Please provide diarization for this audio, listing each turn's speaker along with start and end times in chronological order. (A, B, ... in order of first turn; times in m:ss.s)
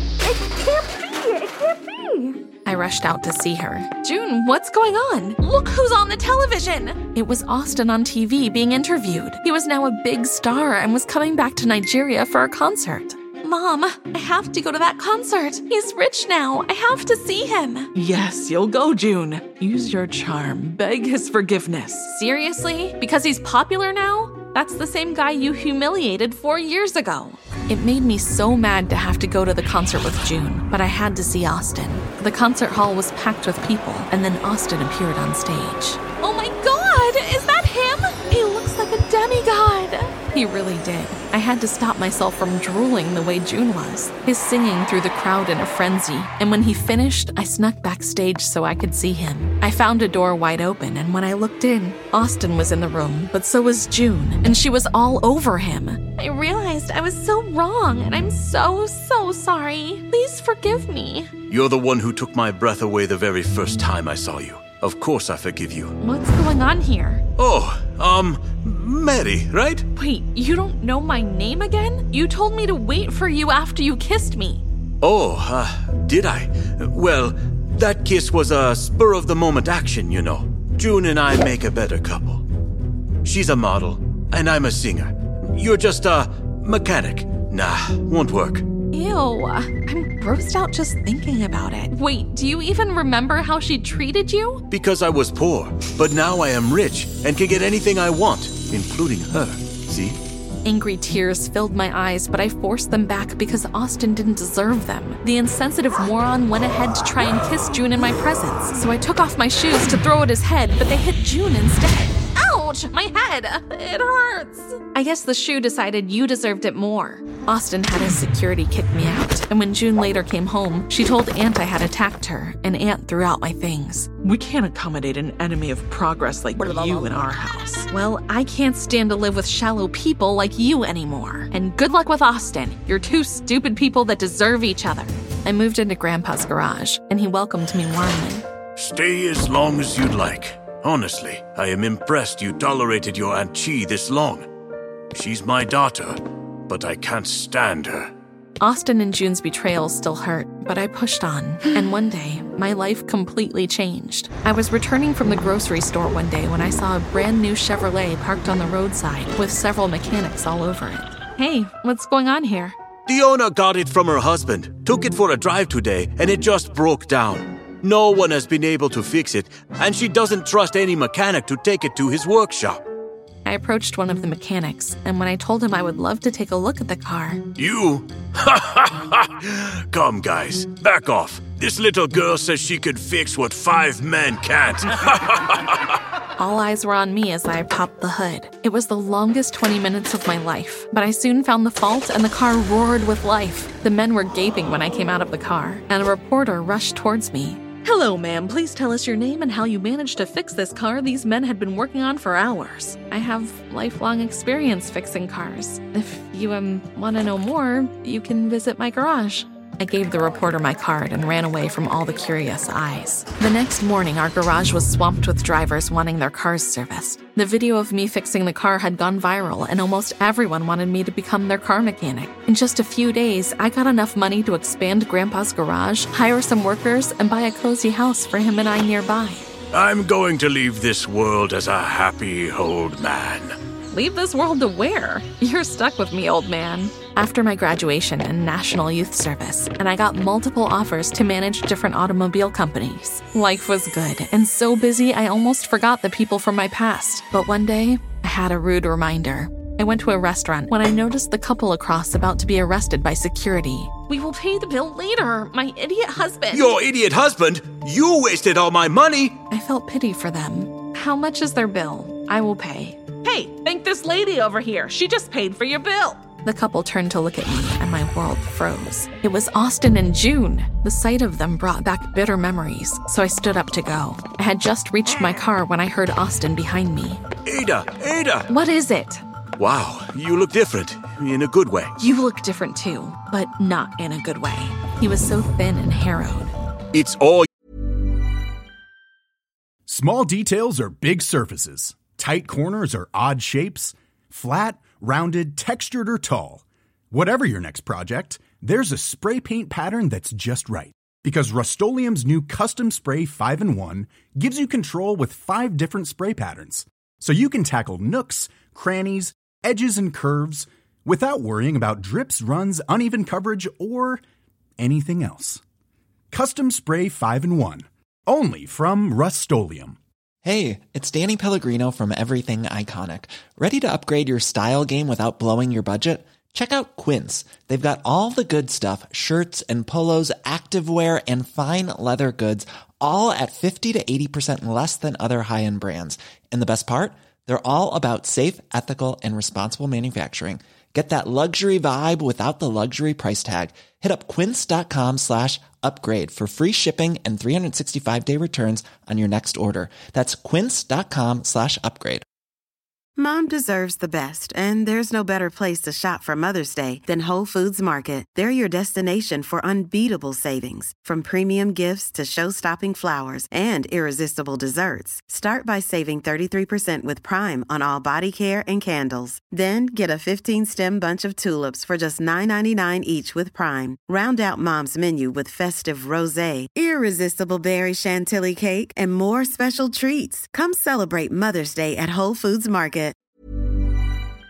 0:00.4-0:01.0 A
0:02.6-0:17.9 A
0:17.9-0:22.1 B
0:22.0-1:01.3 A
1:01.5-1:05.9 C
1:06.0-1:07.2 A
1:07.4-1:09.8 C
1:09.9-1:14.6 A
1:15.0-1:22.4 C
1:23.2-1:28.6 C
1:28.9-1:34.6 A
1:34.7-1:40.2 C
1:40.6-2:04.1 A
2:04.2-2:07.9 B
2:07.9-2:18.4 A
2:18.8-2:24.5 C
2:25.1-2:28.1 C
2:28.6-2:42.8 A
2:43.1-2:52.8 C
2:53.4-2:57.4 A
2:57.6-3:05.8 C
3:06.4-3:49.5 A
3:49.7-3:53.6 C
3:53.9-4:16.8 A
4:16.5-4:19.4 C
4:19.5-4:37.2 A
4:23.4-4:24.3 B
4:37.4-4:38.5 C
4:38.5-4:39.2 A
4:39.6-4:41.9 C
4:42.0-4:46.5 A
4:46.9-4:47.5 C
4:49.8-5:14.2 D
5:14.8-5:15.6 D
5:16.3-5:20.0 D
5:20.4-5:52.2 E
5:53.2-6:23.2 F